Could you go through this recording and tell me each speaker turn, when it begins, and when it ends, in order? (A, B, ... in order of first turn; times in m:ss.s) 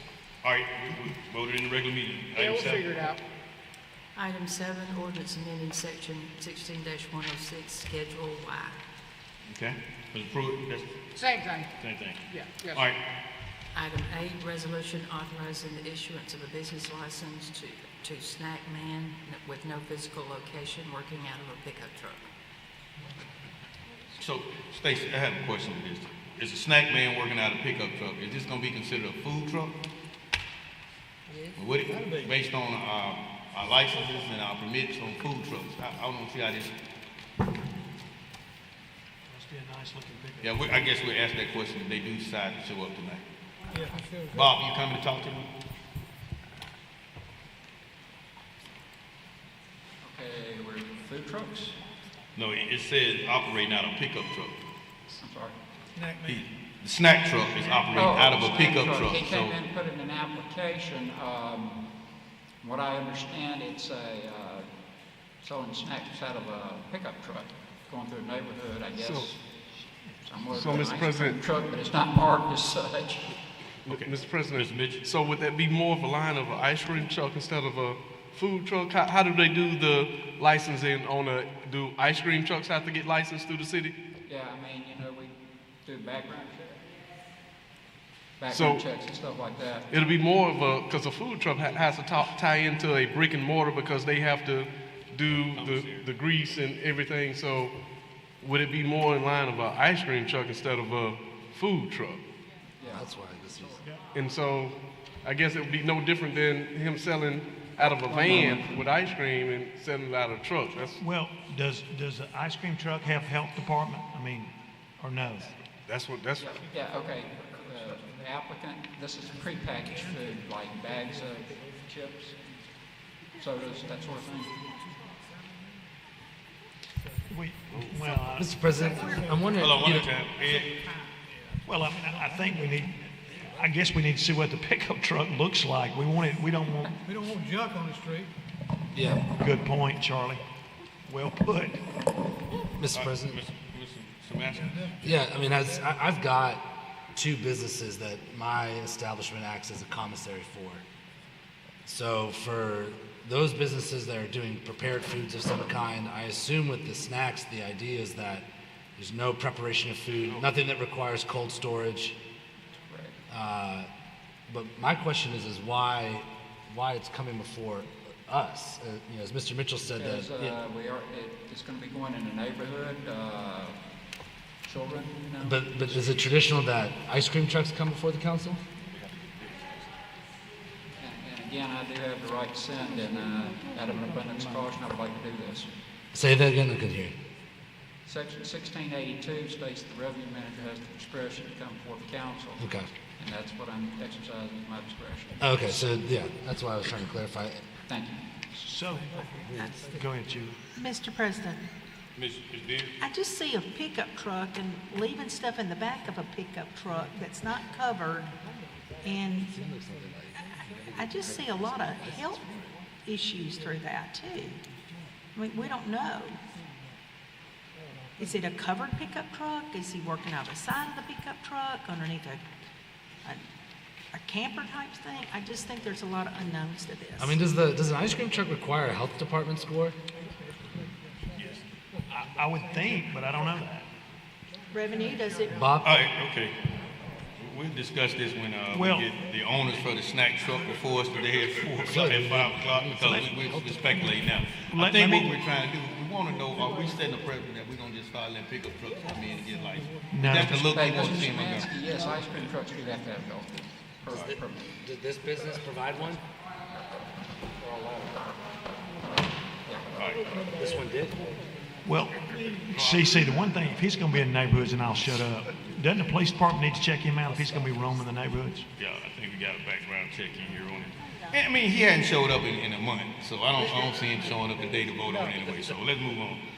0:00.4-0:03.2 A
0:02.3-0:03.2 B
0:04.1-0:08.8 C
0:09.5-0:10.9 A
0:11.1-0:11.7 B
0:11.8-0:13.0 A
0:12.3-0:12.8 B
0:13.7-0:22.2 C
0:24.2-0:29.7 A
0:31.3-0:31.6 C
0:31.6-0:36.7 A
0:31.9-0:32.2 D
0:39.3-0:40.8 E
0:40.4-0:43.2 A
0:43.7-0:44.6 D
0:44.3-0:45.5 A
0:50.0-0:51.8 F
0:52.3-0:54.6 A
0:55.2-0:55.6 F
0:55.9-0:56.4 D
0:56.2-0:59.6 A
0:57.6-0:57.9 D
0:57.9-1:01.8 F
1:02.6-1:04.7 F
1:05.4-1:09.4 F
1:09.0-1:09.3 G
1:10.2-1:13.3 F
1:10.5-1:11.4 G
1:13.8-1:23.9 G
1:13.9-1:15.0 A
1:24.2-1:26.9 F
1:28.4-1:29.9 F
1:28.5-1:28.8 G
1:29.9-1:37.7 G
1:35.5-1:36.1 A
1:38.4-1:42.2 G
1:42.8-1:43.8 F
1:42.9-1:43.8 H
1:44.1-1:51.0 G
1:47.8-1:48.8 F
1:51.0-1:55.5 E
1:55.9-1:56.5 G
1:56.4-2:02.4 F
1:59.9-2:00.2 D
2:03.4-2:04.7 F
2:07.3-2:08.6 E
2:07.7-2:08.0 A
2:08.3-2:10.1 H
2:09.0-2:12.8 D
2:09.6-2:10.7 A
2:11.6-2:17.0 E
2:17.0-2:18.3 D
2:18.9-2:19.2 H
2:19.2-2:20.4 E
2:21.1-2:21.8 E
2:22.8-2:23.4 H
2:22.9-2:25.2 A
2:24.5-2:25.9 D
2:25.0-2:30.8 H
2:31.8-2:42.2 H
2:42.9-2:43.2 F
2:43.3-2:43.9 H
2:44.5-2:50.6 H
2:50.0-2:53.8 F
2:54.6-2:56.0 F
2:55.4-2:58.6 H
2:56.0-2:56.4 A
2:58.8-2:59.8 A
3:01.0-3:05.7 F
3:03.5-3:04.6 D
3:06.1-3:07.1 H
3:08.0-3:12.6 F
3:12.6-3:12.9 H
3:13.2-3:15.8 F
3:15.4-3:17.6 H
3:17.9-3:18.3 F
3:18.6-3:20.6 E
3:18.8-3:20.2 D
3:20.8-3:21.6 I
3:22.2-3:22.9 A
3:23.0-3:28.3 I
3:27.7-3:28.2 D
3:29.0-3:29.5 I
3:29.5-3:32.7 H
3:30.3-3:32.4 I
3:33.0-3:34.6 I
3:35.3-3:36.4 I
3:38.2-3:42.4 I
3:44.1-3:47.4 I
3:47.2-3:50.0 H
3:50.9-3:51.2 D
3:51.4-3:53.9 E
3:52.5-3:53.5 D
3:54.7-3:55.7 I
3:54.8-3:55.7 D
3:55.5-3:56.0 H
3:55.8-3:56.6 A
3:57.4-4:12.5 A
3:58.7-3:59.2 E
4:01.9-4:04.3 H
4:03.0-4:04.1 E
4:04.6-4:05.3 E
4:10.1-4:10.6 E
4:10.6-4:14.7 F
4:14.1-4:16.2 H
4:17.6-4:18.4 F
4:20.0-4:20.3 A
4:20.6-4:21.2 H
4:21.8-4:28.7 E
4:22.3-4:23.7 A
4:28.7-4:36.4 A